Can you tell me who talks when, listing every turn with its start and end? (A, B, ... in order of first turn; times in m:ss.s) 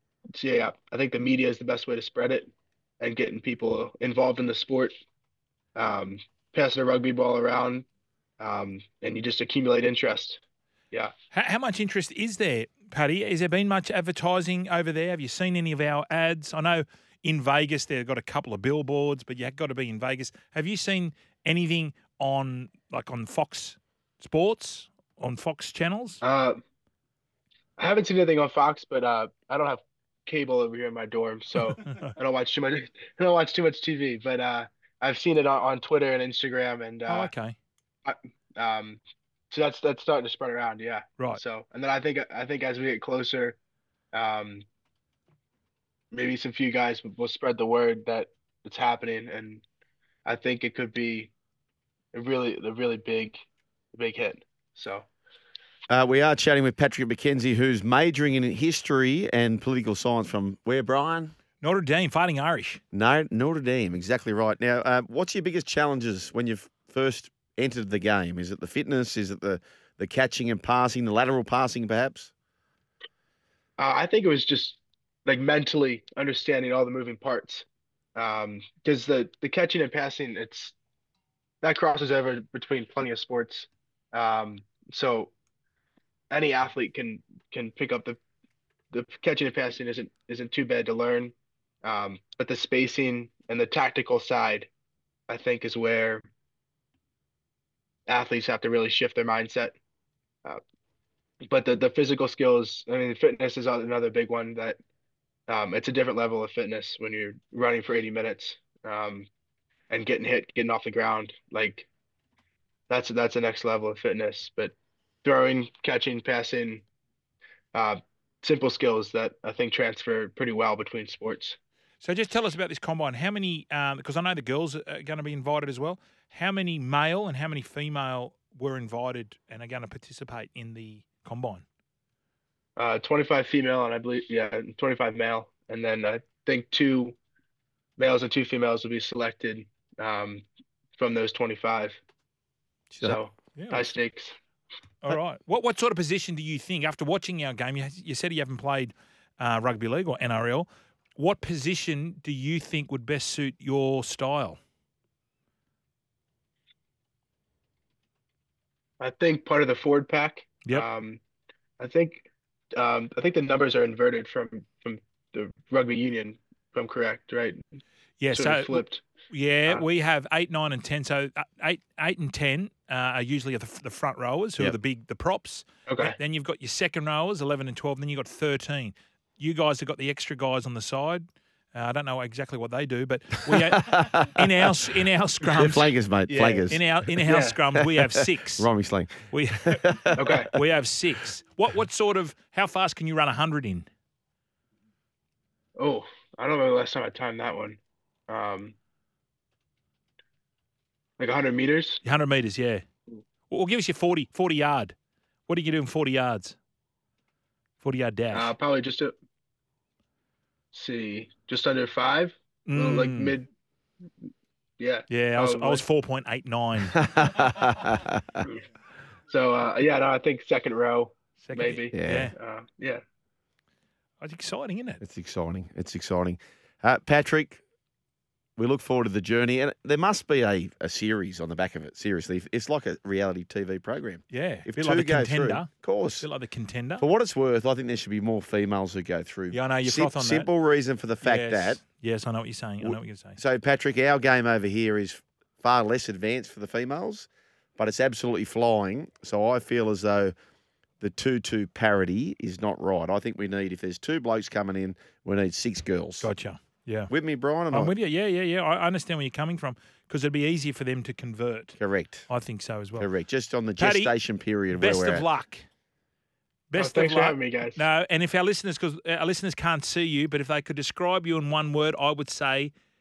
0:00.4-0:04.9 A
0:05.8-0:07.9 A
0:08.4-0:10.4 A
0:11.3-0:26.2 B
0:26.2-0:26.6 A
0:27.8-0:37.3 A
0:31.6-0:32.1 B
0:37.1-0:37.6 B
0:38.0-0:43.6 A
0:44.1-0:44.6 A
0:46.1-0:49.6 A
0:50.2-0:51.3 A
0:52.1-0:55.1 A
0:55.9-1:01.3 C
1:01.6-1:02.8 B
1:02.9-1:12.3 C
1:13.8-1:20.7 A
1:21.6-1:25.3 A
1:26.3-1:28.2 A
1:28.9-1:34.7 A
1:35.3-1:36.2 A
1:38.1-1:39.8 A
1:41.5-1:44.8 A
1:45.5-1:49.3 A
1:49.9-1:51.9 A
1:52.9-1:56.8 A
1:57.7-2:01.6 A
2:02.0-2:11.6 B
2:12.8-2:17.2 A
2:18.0-2:20.4 A
2:21.0-2:22.0 A
2:22.9-2:23.2 C
2:23.0-2:24.3 A
2:23.6-2:23.9 B
2:25.0-2:34.6 B
2:39.0-2:41.2 A
2:41.8-2:47.6 A
2:48.2-3:08.7 B
2:48.3-2:49.0 A
2:55.9-2:56.2 A
3:03.5-3:04.7 C
3:05.4-3:07.0 C
3:07.2-3:07.6 A
3:07.8-3:10.4 C
3:09.3-3:09.8 B
3:10.2-3:10.5 A
3:10.4-3:13.9 B
3:15.8-3:17.8 A
3:18.3-3:18.8 A
3:21.2-3:22.0 A
3:22.0-3:22.8 B
3:23.5-3:25.0 B
3:25.5-3:26.6 B
3:27.8-3:28.5 B
3:28.3-3:29.2 A
3:30.7-3:33.5 A
3:32.7-3:33.4 B
3:34.8-3:35.8 A
3:35.1-3:37.0 B
3:37.0-3:38.4 C
3:39.3-3:43.0 A
3:41.4-3:42.3 B
3:41.9-3:42.3 C
3:44.2-3:45.0 B
3:45.0-3:47.6 C
3:48.6-3:56.3 C
3:54.3-3:57.1 B
3:57.0-4:01.8 C
3:59.5-4:00.5 B
4:01.2-4:03.4 B
4:02.8-4:10.3 C
4:11.0-4:16.3 C
4:16.2-4:17.1 B
4:17.1-4:17.9 C
4:17.7-4:21.8 B
4:21.8-4:22.3 C
4:22.3-4:23.1 B
4:23.0-4:25.3 C
4:23.8-4:24.2 B
4:24.7-4:25.6 B
4:26.7-4:32.7 B
4:26.8-4:27.8 A